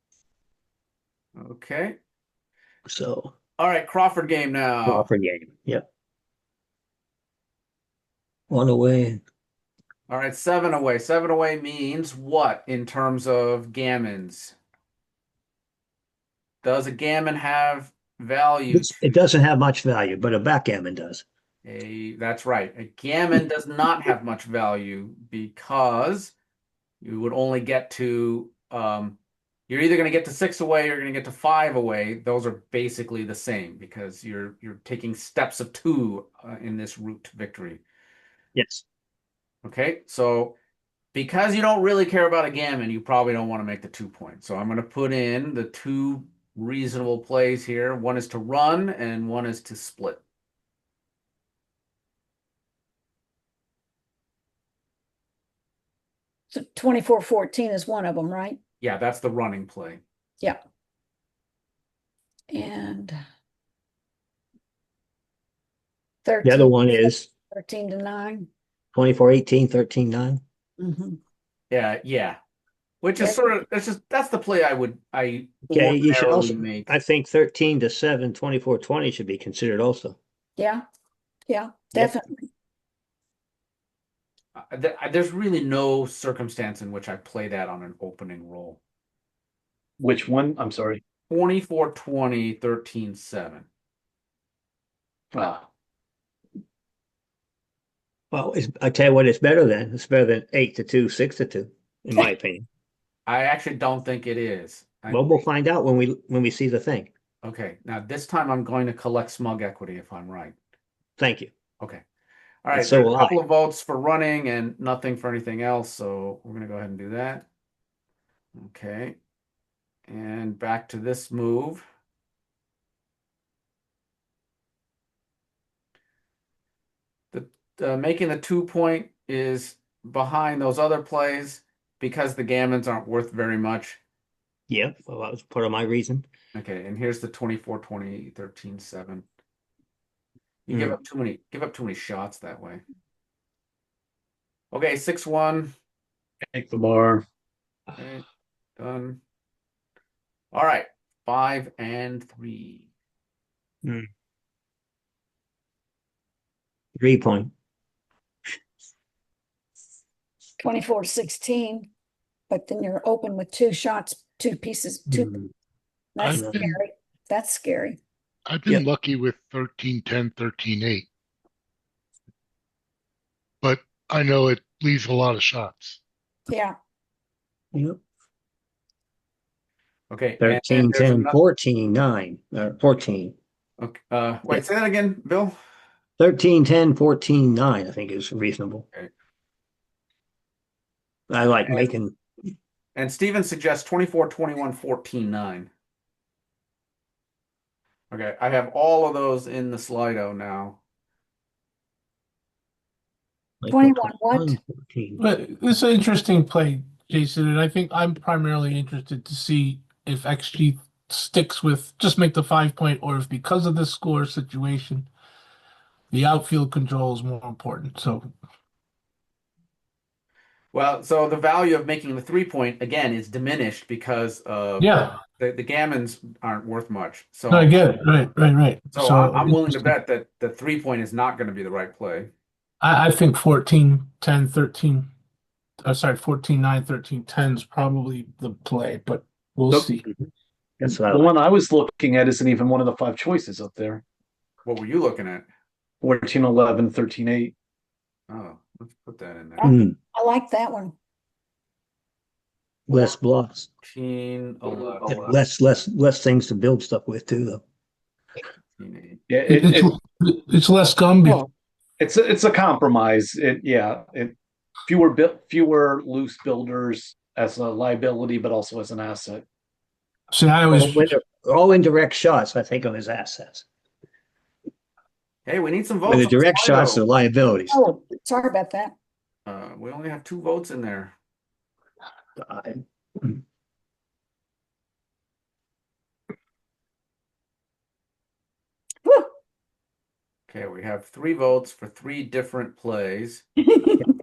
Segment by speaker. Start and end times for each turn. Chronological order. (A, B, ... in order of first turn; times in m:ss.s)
0:01.4-0:02.0 A
0:02.9-0:03.3 B
0:03.6-0:05.1 A
0:04.9-0:05.8 B
0:08.5-0:09.2 B
0:10.1-0:14.6 A
0:16.6-0:19.2 A
0:18.7-0:21.2 B
0:21.6-0:26.3 A
0:27.0-0:29.2 A
0:29.7-0:37.8 A
0:38.6-0:38.8 B
0:39.6-0:40.6 A
0:41.1-0:50.2 A
0:56.5-0:58.6 C
0:58.8-1:00.0 A
1:02.5-1:03.2 C
1:06.2-1:08.5 C
1:06.4-1:07.3 B
1:09.0-1:10.4 B
1:10.8-1:11.2 C
1:11.7-1:12.4 A
1:13.0-1:16.9 A
1:13.2-1:13.5 C
1:15.7-1:20.2 B
1:20.6-1:20.8 C
1:21.5-1:22.5 C
1:24.6-1:28.8 A
1:30.0-1:31.0 D
1:31.3-1:33.7 A
1:35.3-1:35.7 D
1:38.3-1:42.7 B
1:43.3-1:45.4 A
1:45.1-1:47.1 B
1:47.4-1:50.6 A
1:51.2-1:51.5 B
1:52.6-1:57.5 A
1:52.7-1:53.4 B
1:58.6-1:59.2 A
2:00.1-2:01.8 A
2:07.3-2:14.0 A
2:14.7-2:16.3 B
2:16.5-2:19.2 A
2:20.7-2:22.8 A
2:24.7-2:25.7 A
2:26.5-2:27.2 D
2:28.0-2:28.2 A
2:28.8-2:29.2 A
2:30.5-2:32.9 A
2:37.0-2:37.5 B
2:40.6-2:41.9 C
2:42.5-2:45.4 C
2:45.1-2:45.4 B
2:46.2-2:48.0 C
2:46.2-2:46.8 E
2:46.4-2:46.6 B
2:48.5-2:51.1 E
2:53.6-2:56.0 E
2:56.5-2:56.8 C
2:57.7-2:58.0 B
3:00.1-3:01.4 A
3:00.4-3:03.4 B
3:03.8-3:05.6 A
3:06.2-3:08.9 B
3:11.3-3:12.2 B
3:11.6-3:11.9 A
3:13.0-3:15.7 A
3:18.1-3:20.8 A
3:23.6-3:25.2 B
3:23.7-3:24.6 C
3:25.2-3:35.1 F
3:36.1-3:38.3 F
3:40.7-3:47.8 A
3:44.8-3:45.2 F
3:47.5-3:49.9 F
3:48.9-3:52.3 A
3:52.8-3:55.1 F
3:55.8-4:00.0 F
4:00.8-4:04.0 D
4:00.8-4:01.3 B
4:04.6-4:05.5 A
4:06.0-4:07.5 D
4:08.3-4:09.7 A
4:09.6-4:11.0 C
4:09.6-4:10.0 B
4:12.9-4:13.7 B
4:12.9-4:13.2 A
4:13.8-4:15.4 A
4:15.1-4:17.6 B
4:18.7-4:19.2 A
4:19.3-4:19.9 D
4:19.5-4:21.4 F
4:22.0-4:24.4 D
4:24.9-4:29.4 D
4:30.3-4:31.1 F
4:30.7-4:33.6 B
4:35.5-4:37.0 A
4:36.1-4:37.8 B
4:37.7-4:38.9 C
4:39.5-4:41.1 A
4:42.4-4:43.4 B
4:50.5-4:53.5 A
4:53.7-4:54.0 C